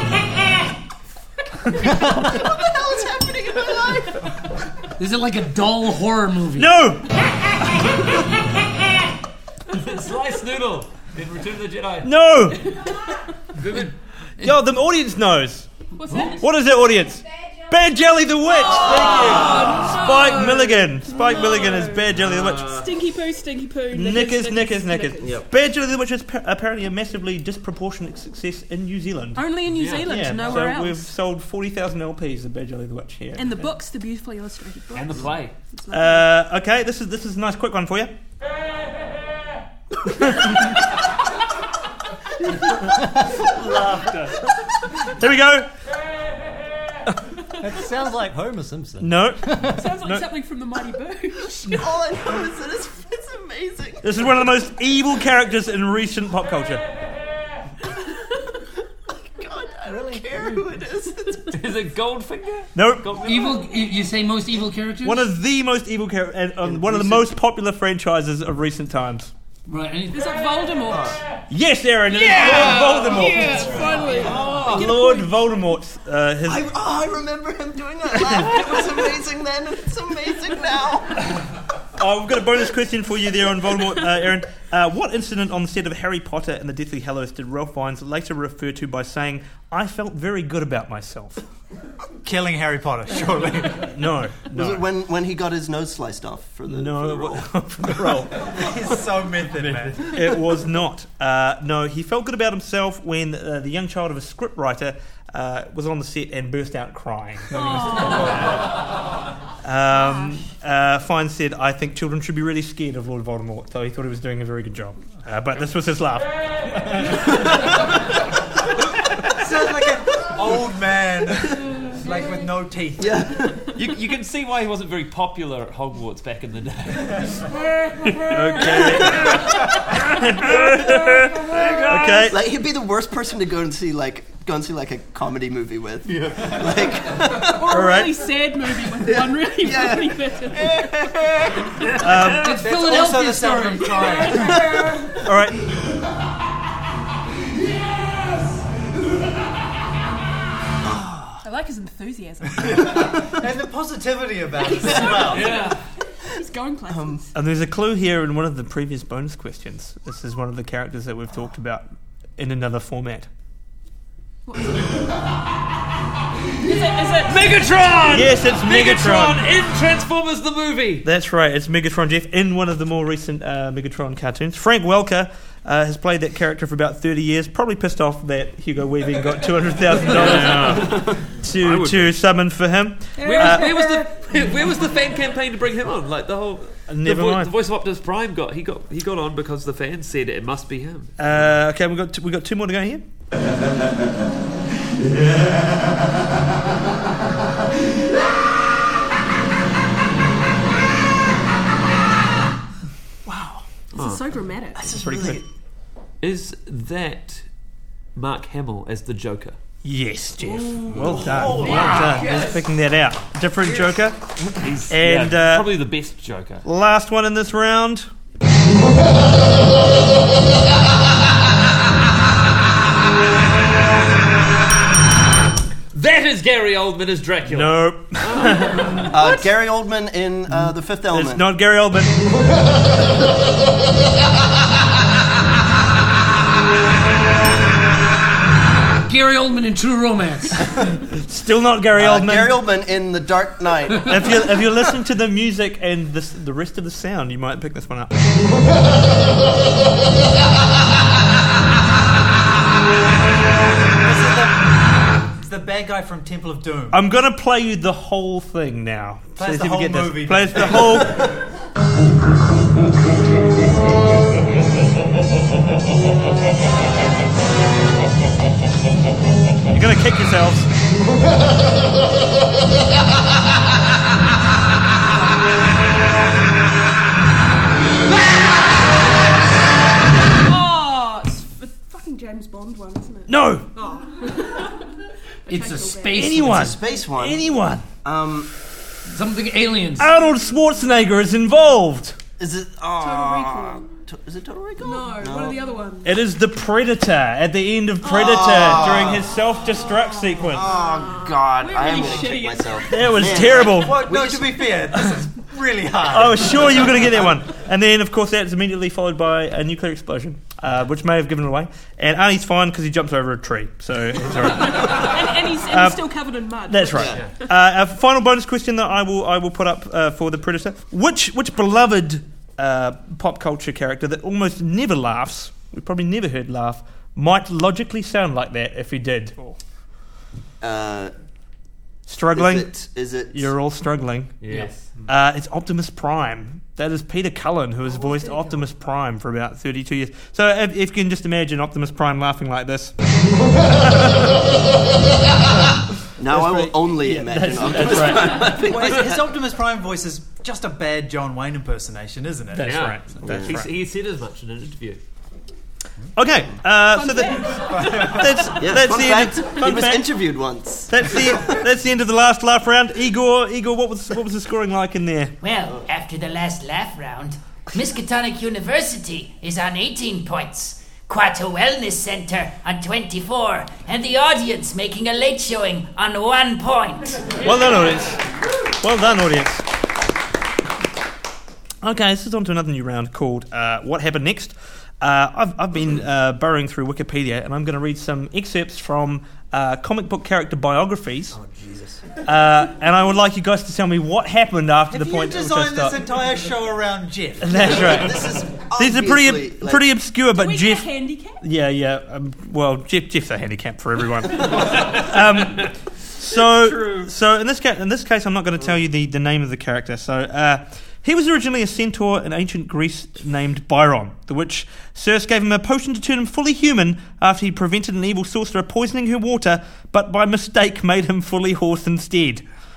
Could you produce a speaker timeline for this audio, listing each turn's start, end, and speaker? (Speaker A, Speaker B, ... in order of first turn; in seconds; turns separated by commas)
Speaker A: 1.8-4.2, Speaker B: 5.0-6.7, Speaker C: 6.5-7.1, Speaker D: 9.7-12.1, Speaker C: 12.0-12.9, Speaker D: 13.5-13.9, Speaker C: 14.4-15.7, Speaker E: 15.9-16.5, Speaker C: 16.4-22.8, Speaker E: 18.6-25.3, Speaker D: 18.8-19.8, Speaker D: 22.1-22.9, Speaker C: 23.9-33.7, Speaker A: 25.2-25.5, Speaker E: 29.3-31.1, Speaker D: 29.7-30.1, Speaker E: 33.4-36.3, Speaker D: 34.9-35.5, Speaker C: 35.9-38.1, Speaker C: 40.0-40.8, Speaker F: 42.7-44.2, Speaker C: 43.5-44.3, Speaker C: 44.9-45.7, Speaker F: 47.6-50.0, Speaker C: 49.0-50.3, Speaker E: 49.7-51.6, Speaker A: 51.4-54.4, Speaker C: 54.0-56.8, Speaker A: 59.1-61.6, Speaker F: 59.9-60.4, Speaker D: 61.5-63.7, Speaker C: 62.7-63.1, Speaker B: 63.2-65.3, Speaker C: 65.0-69.3, Speaker A: 66.6-67.3, Speaker B: 69.7-70.3, Speaker E: 70.1-71.2, Speaker A: 70.9-71.2, Speaker C: 71.5-76.7, Speaker E: 72.1-75.4, Speaker A: 73.8-74.9, Speaker D: 74.3-74.6, Speaker A: 76.4-81.3, Speaker C: 82.0-91.4, Speaker G: 92.2-93.9, Speaker C: 93.8-94.8, Speaker A: 94.5-97.5, Speaker C: 96.7-98.5, Speaker G: 98.5-100.0, Speaker C: 100.0-108.8, Speaker E: 107.5-108.6, Speaker C: 109.6-117.6, Speaker E: 109.9-110.4, Speaker G: 119.3-123.2, Speaker A: 123.0-123.7, Speaker D: 123.7-127.4, Speaker E: 128.0-128.8, Speaker C: 128.2-132.4, Speaker A: 129.0-129.3, Speaker D: 129.0-129.5, Speaker D: 130.1-130.8, Speaker D: 131.3-132.3, Speaker A: 132.3-137.7, Speaker E: 137.3-141.2, Speaker C: 137.7-138.3, Speaker A: 138.9-141.9, Speaker D: 141.9-142.5, Speaker C: 142.0-142.6, Speaker B: 142.4-144.3, Speaker G: 142.4-144.6, Speaker E: 144.0-145.2, Speaker A: 144.7-145.0, Speaker C: 145.2-145.6, Speaker E: 151.4-153.2, Speaker G: 152.7-155.5, Speaker E: 154.8-157.3, Speaker D: 155.3-155.8, Speaker A: 156.9-157.2, Speaker C: 157.3-161.8, Speaker C: 162.4-163.3, Speaker E: 164.4-165.1, Speaker E: 166.6-168.2, Speaker D: 167.2-171.1, Speaker C: 168.1-169.5, Speaker C: 171.0-183.7, Speaker D: 180.0-182.1, Speaker E: 183.2-184.3, Speaker D: 183.2-191.1, Speaker C: 186.9-187.5, Speaker C: 191.2-193.0, Speaker D: 203.9-204.2, Speaker E: 203.9-204.8, Speaker C: 204.8-205.4, Speaker A: 204.9-205.3, Speaker D: 206.2-207.5, Speaker D: 208.1-209.6, Speaker C: 209.8-214.2, Speaker D: 211.0-212.2, Speaker G: 211.0-212.4, Speaker E: 211.6-212.5, Speaker D: 214.6-216.6, Speaker C: 214.9-215.8, Speaker C: 216.6-218.1, Speaker D: 225.9-229.1, Speaker C: 227.4-229.1, Speaker A: 229.1-231.4, Speaker C: 231.1-232.2, Speaker B: 239.1-240.7, Speaker C: 241.1-242.6, Speaker A: 241.9-244.1, Speaker C: 244.1-248.1, Speaker G: 254.0-254.7, Speaker G: 255.4-257.0, Speaker C: 256.9-261.2, Speaker G: 259.4-261.0, Speaker C: 269.7-270.7, Speaker E: 280.4-286.5, Speaker C: 283.3-283.6, Speaker B: 285.5-286.8, Speaker C: 286.1-287.8, Speaker A: 286.4-287.4, Speaker A: 288.0-288.5, Speaker B: 289.1-290.1, Speaker C: 290.0-292.2, Speaker A: 292.4-295.6, Speaker E: 293.0-293.9, Speaker E: 294.8-296.2, Speaker C: 296.0-300.7, Speaker A: 298.0-299.3, Speaker E: 298.2-298.9, Speaker A: 300.4-304.7, Speaker E: 300.5-303.6, Speaker C: 302.9-304.0, Speaker G: 303.7-307.0, Speaker C: 306.1-316.0, Speaker E: 314.4-317.3, Speaker C: 316.7-329.6, Speaker A: 316.9-317.2, Speaker A: 330.6-331.1, Speaker C: 332.1-332.8, Speaker A: 332.3-333.5, Speaker C: 333.3-334.4, Speaker D: 334.4-334.9, Speaker C: 335.1-342.9, Speaker E: 337.9-338.6, Speaker C: 343.6-344.2, Speaker A: 346.2-349.2, Speaker C: 346.2-348.6, Speaker G: 348.4-352.7, Speaker C: 352.5-353.8, Speaker D: 352.6-355.0, Speaker A: 353.2-353.5, Speaker C: 356.1-360.2, Speaker E: 356.9-358.6, Speaker G: 357.6-358.2, Speaker A: 358.5-361.6, Speaker C: 360.9-365.4, Speaker H: 365.4-377.4, Speaker C: 377.4-379.6, Speaker C: 381.8-391.4, Speaker A: 391.3-392.0, Speaker C: 392.2-396.0, Speaker G: 394.9-397.7, Speaker C: 397.4-422.4, Speaker A: 397.5-399.8, Speaker E: 400.3-401.4